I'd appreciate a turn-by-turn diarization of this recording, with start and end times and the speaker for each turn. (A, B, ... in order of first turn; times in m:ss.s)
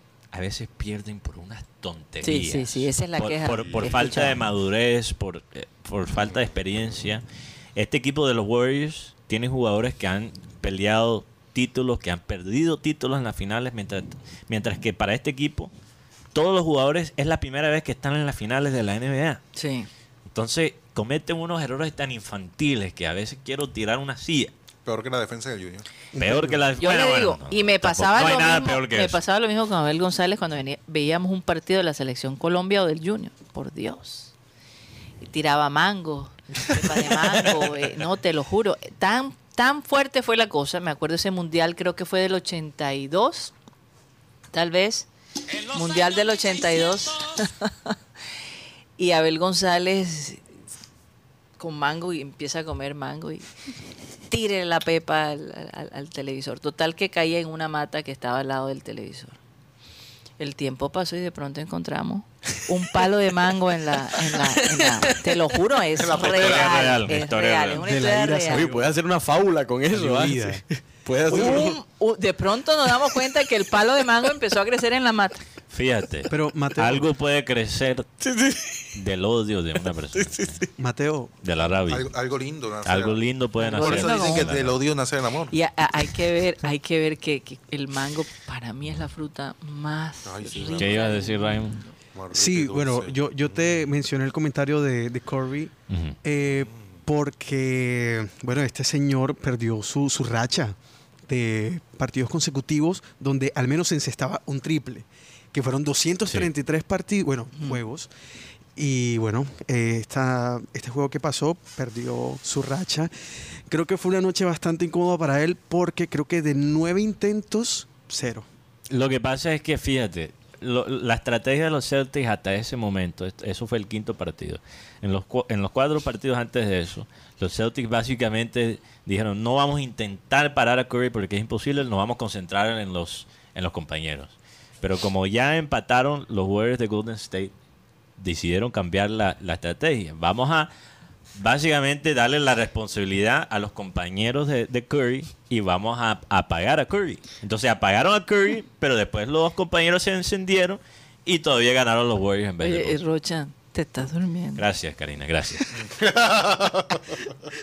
0:00.3-0:07.2 A
0:02.2-0:04.4 B
0:07.8-0:15.7 A
0:16.3-0:19.4 A
0:19.6-0:19.9 B
0:20.3-0:24.5 A
0:24.8-0:25.9 C
0:26.1-0:26.6 D
0:26.2-0:29.2 A
0:26.8-0:34.3 B
0:35.2-0:43.5 B
0:44.5-0:45.1 B
0:45.6-0:48.0 B
0:49.0-0:50.4 B
0:51.6-0:53.5 B
0:54.3-0:59.4 B
1:00.4-1:08.7 B
1:04.3-1:05.3 E
1:06.0-1:06.9 C
1:06.1-1:07.9 A
1:07.8-1:11.8 E
1:09.9-1:10.6 D
1:11.3-1:15.4 B
1:15.7-1:18.1 A
1:16.3-1:17.1 D
1:18.2-1:19.0 E
1:18.9-1:20.6 A
1:19.8-1:20.7 E
1:20.8-1:21.3 D
1:21.4-1:22.1 A
1:21.9-1:23.2 C
1:22.8-1:24.8 A
1:23.6-1:24.5 B
1:23.7-1:25.6 C
1:25.5-1:32.0 B
1:30.2-1:31.1 C
1:30.6-1:31.8 A
1:32.1-1:33.7 C
1:32.3-1:40.8 D
1:35.9-1:36.2 A
1:41.3-1:48.1 D
1:48.8-1:53.1 D
1:53.7-1:58.5 D
1:58.9-2:17.5 A
2:18.2-2:20.7 A
2:21.4-2:33.0 A
2:32.6-2:34.6 B
2:34.6-2:35.7 A
2:35.7-2:37.3 C